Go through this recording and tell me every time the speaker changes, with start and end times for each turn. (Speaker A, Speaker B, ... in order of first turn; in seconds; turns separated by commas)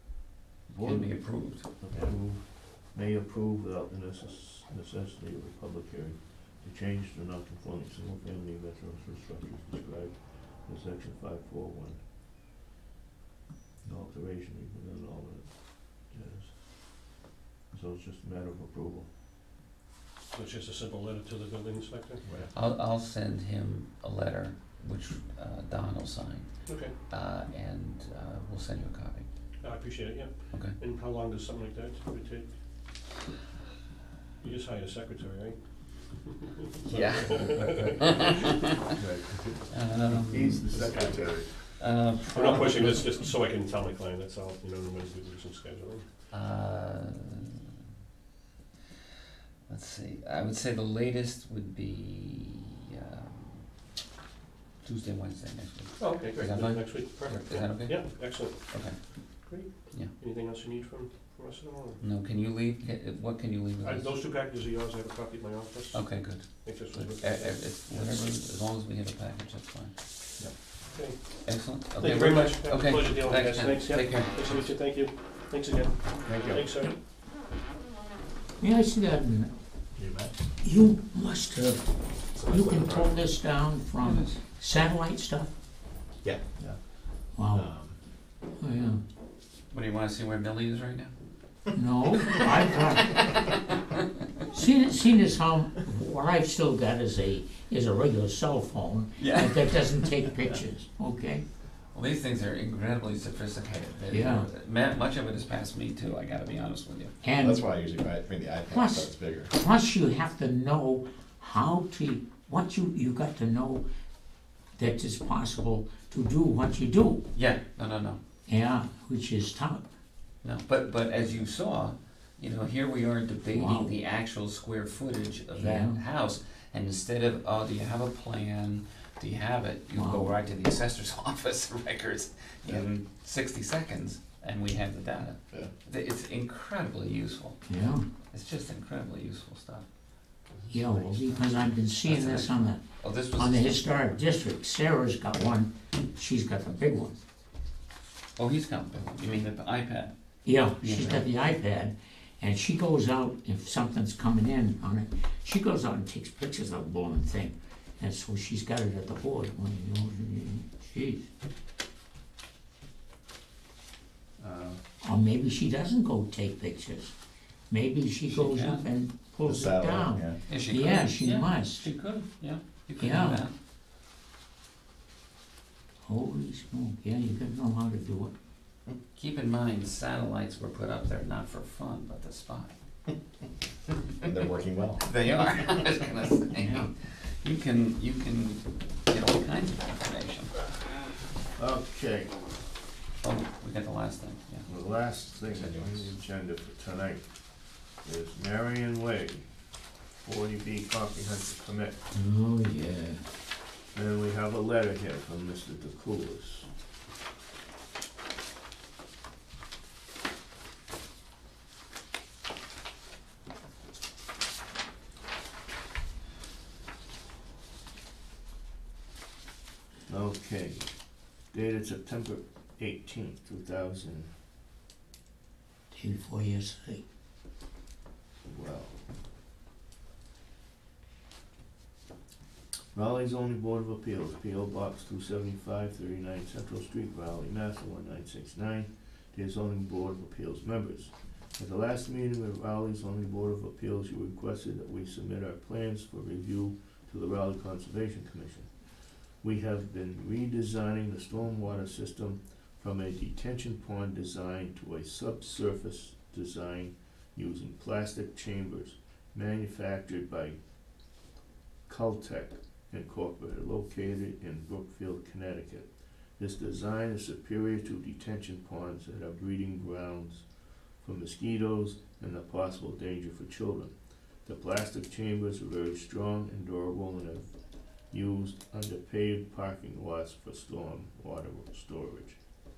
Speaker A: 0.7-12.0, Speaker B: 0.8-1.7, Speaker A: 13.8-15.5, Speaker A: 16.1-16.5, Speaker A: 17.7-19.1, Speaker C: 20.3-22.2, Speaker B: 22.5-26.5, Speaker C: 26.7-26.9, Speaker B: 27.1-29.3, Speaker C: 29.6-32.5, Speaker C: 34.4-35.6, Speaker C: 36.8-38.4, Speaker B: 36.9-38.9, Speaker A: 37.4-38.2, Speaker A: 38.9-41.5, Speaker B: 39.7-40.7, Speaker D: 40.9-41.4, Speaker B: 41.8-43.1, Speaker C: 42.3-46.0, Speaker B: 46.3-47.7, Speaker B: 49.7-53.6, Speaker B: 54.8-59.2, Speaker C: 56.0-62.0, Speaker B: 62.0-64.1, Speaker C: 63.8-68.2, Speaker B: 65.9-69.9, Speaker C: 70.9-77.0, Speaker B: 71.4-74.6, Speaker A: 76.2-76.6, Speaker E: 78.6-79.5, Speaker D: 80.0-80.3, Speaker E: 80.6-81.9, Speaker D: 82.4-83.2, Speaker E: 82.4-85.5, Speaker B: 84.0-84.3, Speaker E: 87.3-87.7, Speaker D: 87.5-88.0, Speaker E: 88.6-89.0, Speaker B: 89.7-91.1, Speaker E: 91.7-93.3, Speaker B: 93.1-94.0, Speaker E: 94.5-101.4, Speaker B: 99.2-100.6, Speaker B: 101.9-107.1, Speaker E: 104.1-104.5, Speaker E: 107.2-107.6, Speaker D: 107.4-109.5, Speaker E: 108.7-113.8, Speaker E: 114.8-117.3, Speaker B: 117.3-118.2, Speaker E: 118.5-119.9, Speaker B: 120.4-137.6, Speaker E: 123.5-123.9, Speaker E: 125.5-126.0, Speaker E: 129.9-130.3, Speaker E: 137.7-138.1, Speaker B: 138.3-139.9, Speaker E: 140.7-142.8, Speaker B: 140.9-141.4, Speaker B: 142.0-144.1, Speaker E: 143.4-147.2, Speaker B: 148.4-150.1, Speaker E: 150.4-161.3, Speaker B: 150.7-151.3, Speaker A: 164.4-164.8, Speaker E: 165.0-167.1, Speaker E: 167.7-171.9, Speaker B: 168.3-168.8, Speaker D: 169.4-170.4, Speaker B: 170.5-173.5, Speaker E: 173.0-173.4, Speaker E: 176.1-178.3, Speaker B: 179.1-182.8, Speaker D: 184.2-185.1, Speaker B: 185.0-190.6, Speaker E: 186.5-186.9, Speaker A: 191.6-192.3, Speaker B: 193.2-194.7, Speaker A: 194.7-197.3, Speaker D: 195.4-196.2, Speaker A: 198.0-199.4, Speaker A: 200.2-202.0, Speaker E: 202.1-203.2, Speaker A: 203.9-206.7, Speaker A: 220.1-220.9, Speaker A: 221.5-224.3, Speaker E: 225.9-227.0, Speaker A: 228.5-229.0, Speaker A: 232.9-248.7, Speaker A: 249.4-260.6, Speaker A: 261.9-265.9, Speaker A: 266.4-270.4, Speaker A: 271.0-273.9, Speaker A: 274.4-277.5, Speaker A: 278.1-282.4